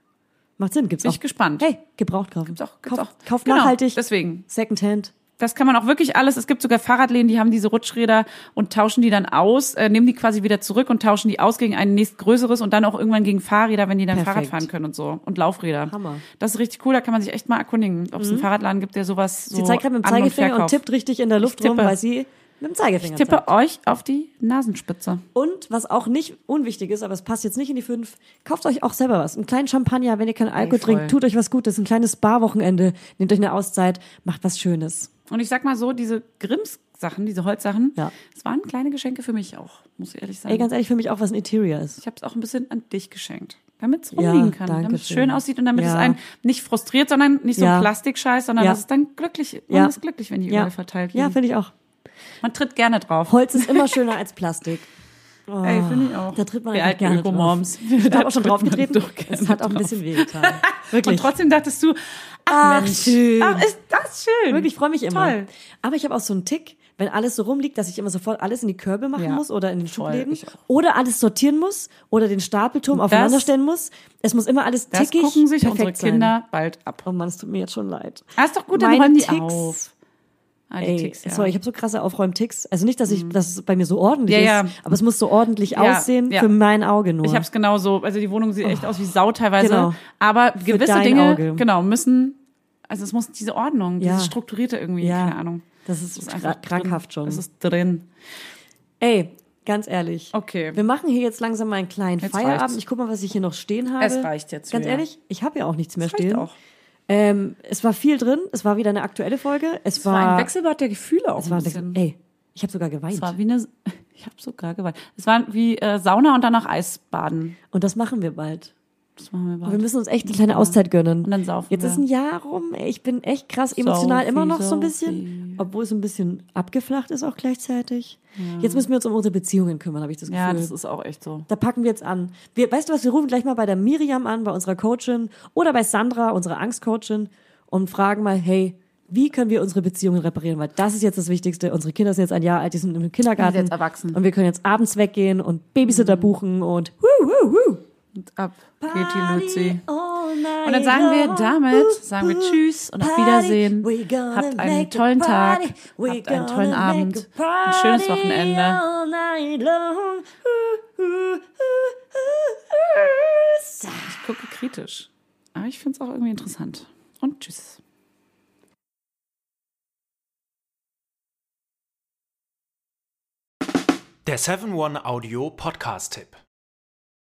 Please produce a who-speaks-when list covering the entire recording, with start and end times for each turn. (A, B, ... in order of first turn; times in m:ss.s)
0:00.6-0:05.1 A
0:01.0-0:01.7 B
0:02.5-0:04.4 B
0:05.4-0:20.8 B
0:14.1-0:14.7 A
0:15.9-0:16.2 A
0:18.2-0:18.5 A
0:19.5-0:23.5 A
0:21.4-0:22.0 B
0:23.0-0:25.2 B
0:25.4-0:35.1 A
0:30.6-0:31.2 B
0:35.3-0:40.7 B
0:40.5-0:42.0 A
0:42.0-0:51.4 B
0:44.2-0:46.2 A
0:47.6-0:47.9 A
0:49.7-0:50.0 A
0:50.5-0:51.7 A
0:52.4-0:54.0 B
0:53.3-0:54.9 A
0:55.5-1:01.3 A
0:55.6-1:05.5 B
1:02.5-1:03.7 A
1:04.5-1:16.3 A
1:09.2-1:10.6 B
1:12.9-1:13.5 B
1:14.9-1:17.1 B
1:17.0-1:19.9 A
1:18.4-1:19.8 B
1:20.7-1:21.6 B
1:20.8-1:27.5 A
1:23.1-1:23.4 B
1:24.3-1:24.8 B
1:25.7-1:26.5 B
1:27.2-1:35.6 B
1:28.6-1:29.0 A
1:29.6-1:30.0 A
1:30.6-1:31.6 A
1:34.0-1:34.4 A
1:35.0-1:37.4 A
1:36.2-1:38.1 B
1:39.0-1:46.5 A
1:40.3-1:40.8 B
1:42.2-1:42.8 B
1:44.0-1:45.0 B
1:46.0-1:46.6 B
1:47.1-1:50.5 A
1:50.0-1:52.0 B
1:51.4-1:53.3 A
1:53.1-1:57.6 B
1:57.7-1:58.7 A
1:59.2-2:02.0 B
1:59.6-2:10.7 A
2:03.7-2:05.6 B
2:08.4-2:08.9 B
2:10.3-2:11.5 B
2:11.5-2:27.8 A
2:23.4-2:24.2 B
2:25.9-2:26.4 B
2:28.2-2:29.8 B
2:28.8-2:44.2 A
2:30.6-2:38.8 B
2:44.0-2:47.8 B
2:54.2-2:56.4 C